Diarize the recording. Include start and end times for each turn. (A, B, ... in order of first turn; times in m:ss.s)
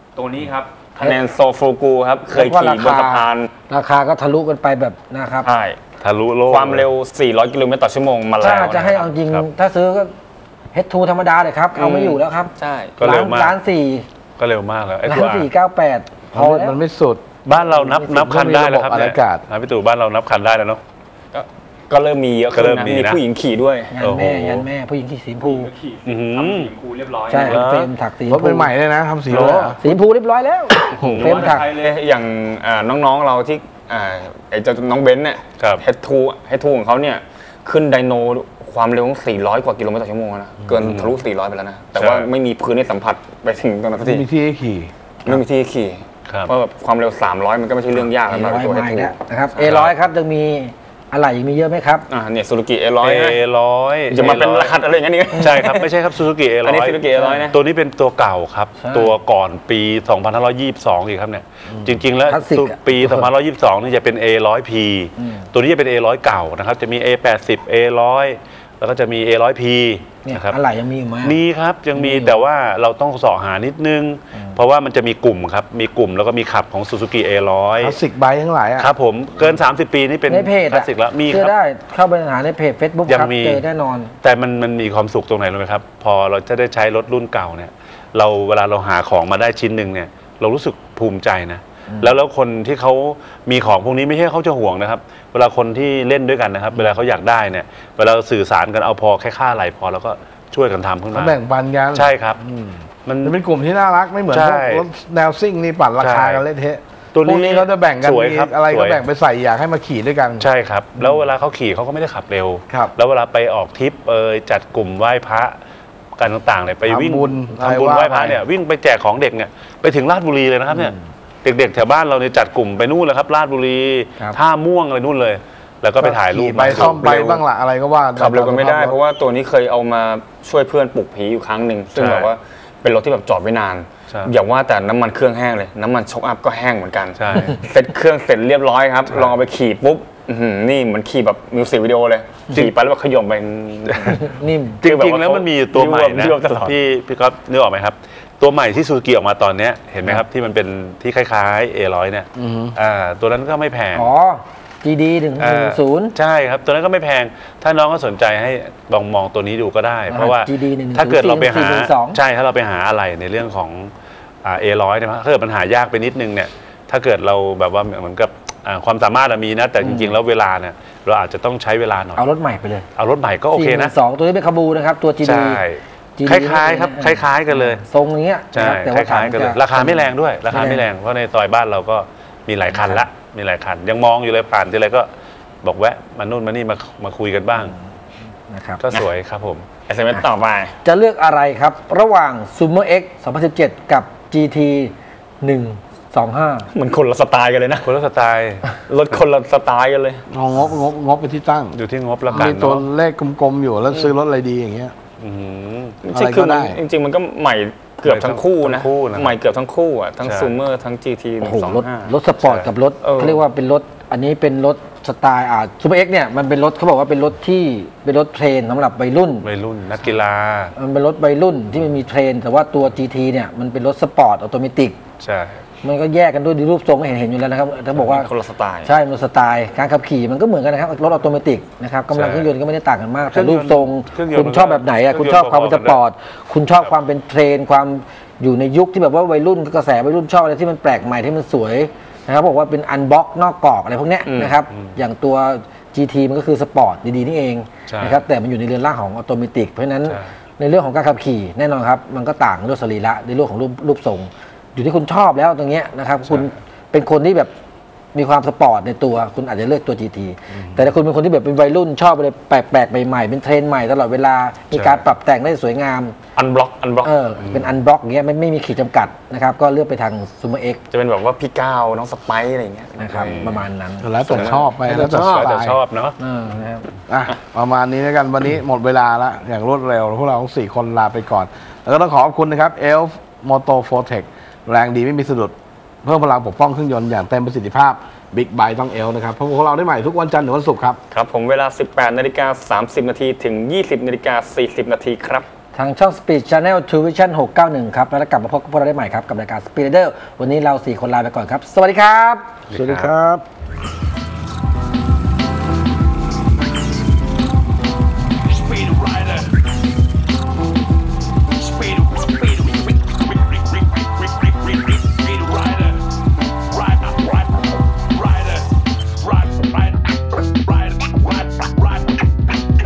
0:00.2-0:03.5 A
0:02.3-0:05.5 B
0:05.4-0:05.8 A
0:06.0-0:06.9 C
0:06.5-0:09.1 A
0:08.4-0:09.4 C
0:08.4-0:10.1 B
0:10.7-0:14.0 B
0:11.7-0:13.0 A
0:13.0-0:13.6 C
0:14.4-0:15.5 C
0:15.0-0:16.8 B
0:16.3-0:17.2 D
0:17.4-0:20.8 C
0:17.5-0:18.3 B
0:18.1-0:19.4 D
0:21.3-0:23.9 A
0:22.5-0:23.2 C
0:23.9-0:25.7 B
0:24.0-0:24.7 C
0:25.4-0:27.6 A
0:26.0-0:26.7 C
0:27.3-0:28.7 B
0:27.4-0:27.9 C
0:28.3-0:29.8 D
0:29.3-0:29.8 C
0:29.5-0:31.7 B
0:30.8-0:44.2 A
0:30.9-0:31.2 D
0:31.0-0:31.4 C
0:35.6-0:35.8 C
0:40.8-0:41.2 C
0:42.0-0:42.3 C
0:44.0-0:44.9 D
0:45.2-0:49.8 A
0:46.2-0:46.5 C
0:48.2-0:52.1 B
0:49.6-0:49.9 C
0:52.1-0:53.4 A
0:53.0-0:54.8 C
0:54.1-0:55.9 A
0:55.4-1:10.6 C
0:56.6-0:57.6 A
0:57.2-0:57.4 B
0:58.8-0:59.2 B
1:01.7-1:02.0 D
1:02.2-1:03.3 B
1:05.2-1:05.4 B
1:10.2-1:11.4 B
1:11.2-1:18.0 C
1:11.9-1:12.4 B
1:17.8-1:18.9 D
1:18.8-1:21.5 C
1:20.3-1:24.1 B
1:23.0-1:23.6 C
1:24.2-1:41.4 C
1:31.9-1:32.2 B
1:41.1-1:50.4 D
1:41.9-1:42.4 C
1:43.0-1:43.4 C
1:44.3-1:44.9 C
1:46.0-1:46.4 C
1:47.1-1:49.0 C
1:50.4-1:55.6 C
1:56.2-2:07.3 C
1:56.8-1:58.4 D
2:06.0-2:09.0 D
2:06.9-2:07.4 A
2:08.2-2:26.8 A
2:11.9-2:12.3 C
2:14.1-2:14.3 C
2:17.1-2:17.6 C
2:24.1-2:24.8 B
2:24.8-2:34.1 C
2:32.4-2:32.7 D
2:33.9-2:36.1 B
2:35.4-2:43.9 C
2:40.1-2:42.2 B
2:44.4-2:52.2 C
2:49.8-2:50.2 B
2:52.2-2:52.8 B
2:52.9-2:53.9 C
2:53.5-2:55.6 B
2:55.2-2:57.8 C
2:56.2-3:00.8 B
2:58.5-3:05.1 C
3:02.7-3:03.0 B
3:05.6-3:07.7 C
3:08.5-3:08.8 B
3:08.8-3:09.8 C
3:09.8-3:10.7 A
3:10.8-3:16.7 B
3:16.7-3:17.9 A
3:17.8-3:18.8 C
3:18.9-3:20.2 A
3:20.3-3:21.8 D
3:21.7-3:22.8 C
3:22.3-3:24.9 D
3:25.2-3:26.0 C
3:26.0-3:32.1 A
3:26.1-3:26.8 D
3:28.0-3:29.4 C
3:30.2-3:30.5 C
3:31.4-3:39.5 B
3:32.4-3:32.7 C
3:33.0-3:33.4 A
3:39.4-3:40.7 C
3:40.8-3:45.0 B
3:45.2-3:45.6 C
3:45.8-3:48.3 B
3:48.0-3:48.9 A
3:48.8-4:17.5 B
3:52.1-3:52.5 C
3:53.3-3:56.0 C
4:04.2-4:04.6 A
4:04.7-4:05.0 C
4:07.9-4:08.2 C
4:18.1-4:26.2 B
4:20.5-4:20.9 D
4:24.7-4:25.0 C
4:26.4-4:27.1 A
4:27.0-4:30.8 B
4:27.4-4:27.7 C
4:30.9-4:33.4 A
4:33.0-4:35.5 B
4:33.2-4:33.7 C
4:34.0-4:35.8 D
4:34.3-4:34.7 A
4:35.1-4:36.2 C
4:36.2-4:36.9 B
4:37.1-4:51.0 D
4:51.1-4:55.4 A
4:55.7-5:02.4 B
5:02.7-5:03.1 C
5:02.7-5:03.4 D
5:08.8-5:09.4 C
5:15.3-5:15.9 C